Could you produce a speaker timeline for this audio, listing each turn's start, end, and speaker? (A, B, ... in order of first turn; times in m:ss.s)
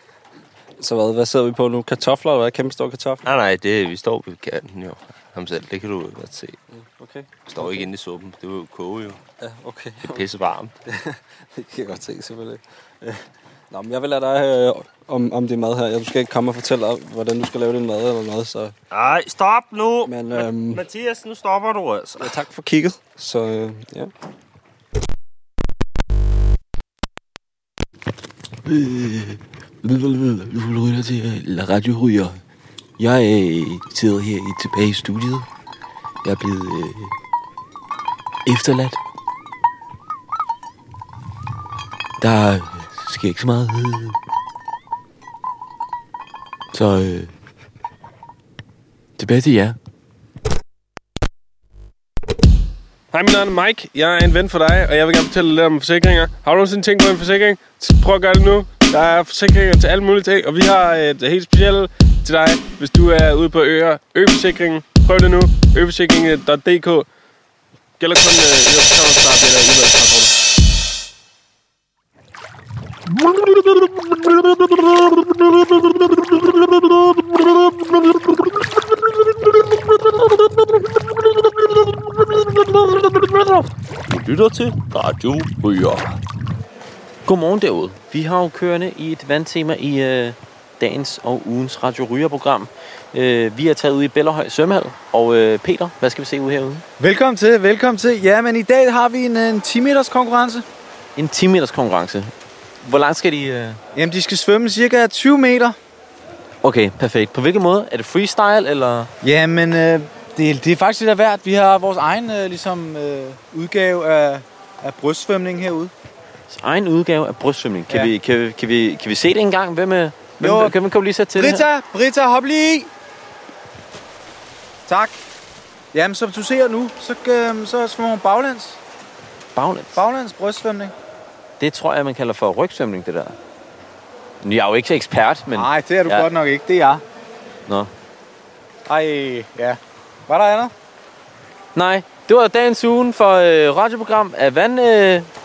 0:00.8-0:03.2 A
0:03.2-0:06.6 B
0:06.7-0:07.9 A
0:07.5-0:09.2 B
0:09.4-0:10.2 A
0:10.1-0:10.7 B
0:10.9-0:18.7 A
0:18.9-0:22.3 B
0:20.0-0:20.8 A
0:22.2-0:24.1 A
0:28.6-0:32.4 C
0:33.0-0:35.4 C
0:36.2-0:37.1 C
0:38.4-0:39.0 C
0:42.2-0:44.2 C
0:46.7-0:47.3 C
0:49.2-0:49.8 C
0:53.1-1:07.1 D
1:08.0-1:10.3 D
1:13.4-1:14.3 D
1:22.4-1:23.3 B
1:24.1-1:26.2 B
1:27.2-1:36.8 E
1:37.0-1:40.6 F
1:41.2-1:42.3 E
1:42.8-1:43.8 E
1:43.9-1:45.8 F
1:46.6-1:49.1 E
1:49.2-1:55.9 F
1:56.5-2:01.7 E
2:00.4-2:00.8 F
2:01.3-2:02.9 F
2:04.9-2:05.2 F
2:05.9-2:08.8 F
2:09.5-2:10.0 E
2:09.9-2:10.9 F
2:11.6-2:13.4 E
2:14.4-2:16.3 E
2:15.5-2:17.0 F
2:17.7-2:17.9 E
2:18.9-2:20.7 F
2:21.7-2:25.3 E